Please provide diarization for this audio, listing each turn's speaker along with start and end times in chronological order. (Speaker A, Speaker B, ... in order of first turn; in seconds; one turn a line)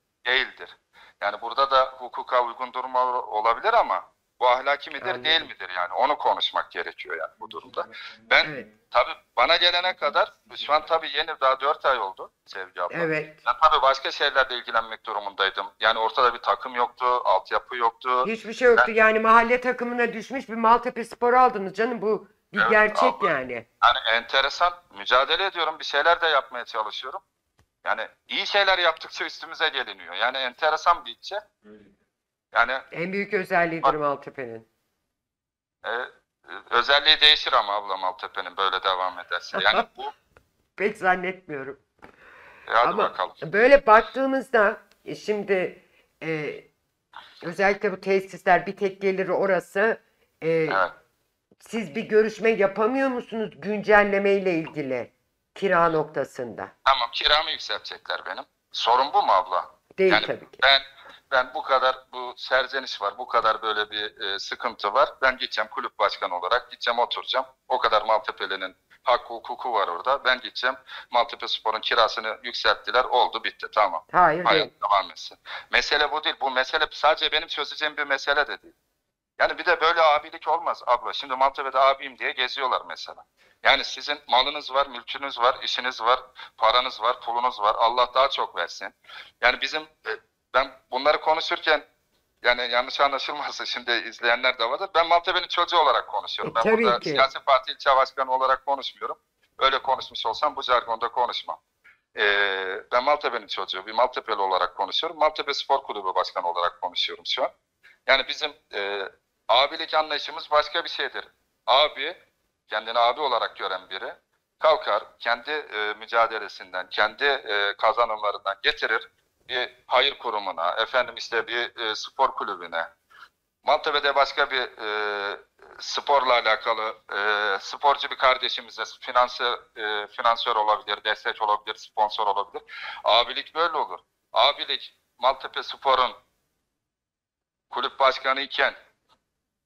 Speaker A: 0.2-18.9
Speaker B: 5.0-5.5
Speaker B: 8.4-8.7
Speaker B: 12.9-13.4
Speaker B: 18.2-23.6
Speaker A: 22.6-27.2
Speaker A: 27.8-31.4
Speaker A: 32.5-32.8
Speaker B: 32.9-34.7
Speaker A: 35.8-40.1
Speaker B: 39.5-39.9
Speaker B: 40.8-41.8
Speaker A: 42.7-43.4
Speaker B: 42.8-46.7
Speaker B: 47.4-50.8
Speaker B: 51.6-56.7
Speaker A: 56.9-78.7
Speaker B: 60.0-60.6
Speaker B: 74.1-74.7
Speaker A: 79.4-91.8
Speaker A: 92.4-101.6
Speaker B: 96.4-97.3
Speaker A: 102.2-107.5
Speaker A: 108.0-112.2
Speaker A: 112.7-122.9
Speaker A: 123.6-136.2
Speaker A: 137.7-138.8